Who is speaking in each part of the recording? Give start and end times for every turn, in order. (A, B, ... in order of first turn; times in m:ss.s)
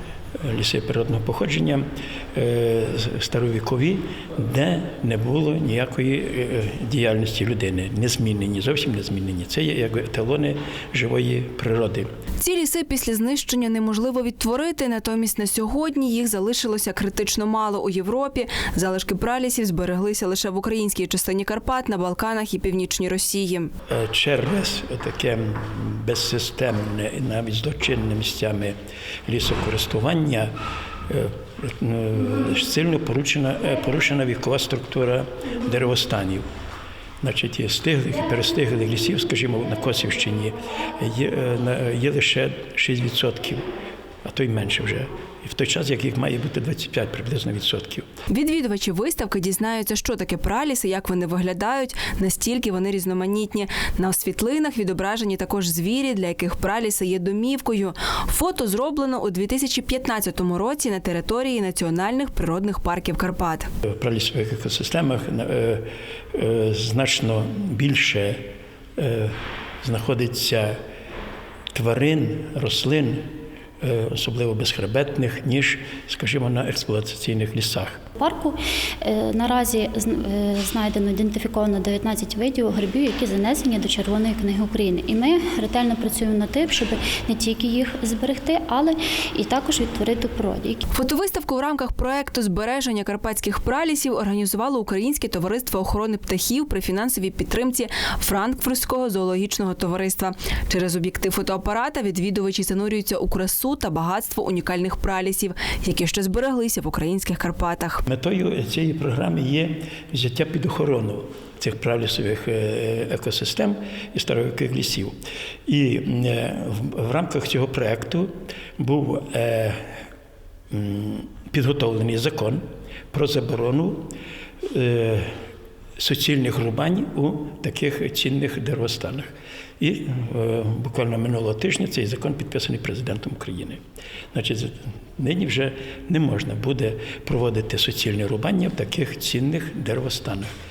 0:00.4-0:12.1 A
0:12.4-0:23.7 B
0:23.9-0:28.7 A
0:29.2-0:30.5 A
0:31.1-0:36.4 A
0:37.2-0:43.6 A
0:44.2-0:48.0 A
0:48.3-1:03.7 B
1:03.8-1:08.4 A
1:09.0-1:10.8 A
1:11.7-1:13.3 A
1:13.8-1:18.0 A
1:18.2-1:30.8 C
1:30.9-1:48.0 B
1:48.0-1:55.1 A
1:55.7-1:59.9 A
2:00.7-2:04.1 A
2:04.7-2:05.3 A
2:06.0-2:13.8 A
2:14.3-2:20.5 A